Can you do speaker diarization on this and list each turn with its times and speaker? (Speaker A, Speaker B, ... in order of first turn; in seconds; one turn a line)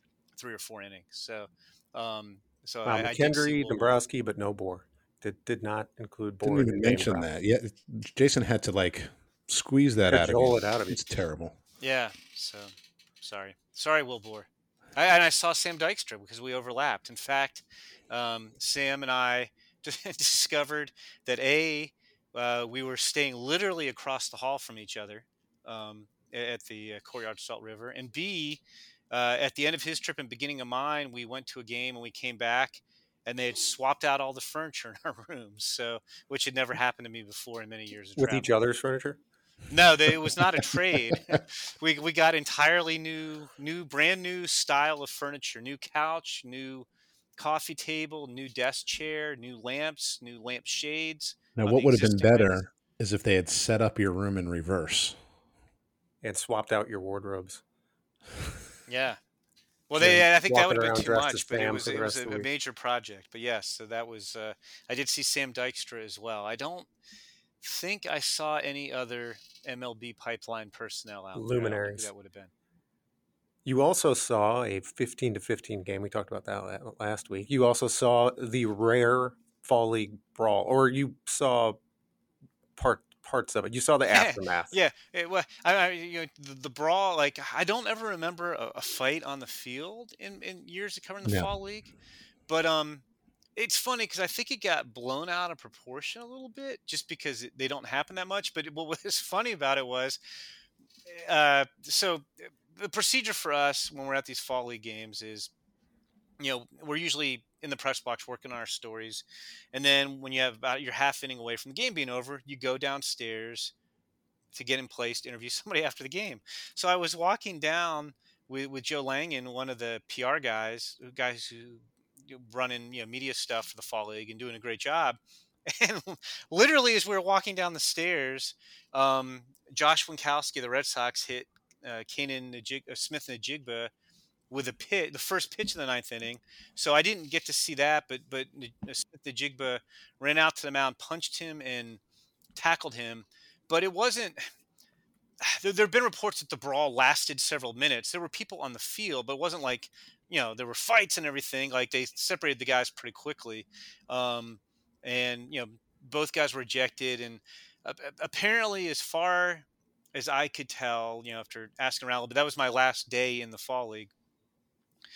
Speaker A: 0.3-4.0
Speaker B: 2.8-7.3
Speaker C: 6.4-11.6
Speaker B: 10.1-11.0
Speaker A: 11.8-38.5
Speaker B: 38.2-39.2
Speaker A: 39.7-46.9
Speaker A: 47.4-52.7
Speaker C: 51.6-55.2
Speaker B: 56.2-57.6
Speaker A: 58.9-59.2
Speaker A: 59.9-66.9
Speaker B: 60.0-62.5
Speaker A: 67.6-72.5
Speaker B: 71.3-72.1
Speaker B: 73.6-81.8
Speaker B: 82.8-84.8
Speaker A: 84.1-91.9
Speaker A: 92.5-93.0
Speaker A: 93.5-100.2
Speaker A: 101.1-105.5
Speaker A: 106.4-113.7
Speaker A: 114.5-133.9
Speaker A: 134.5-142.0
Speaker A: 142.6-144.4
Speaker A: 145.4-164.1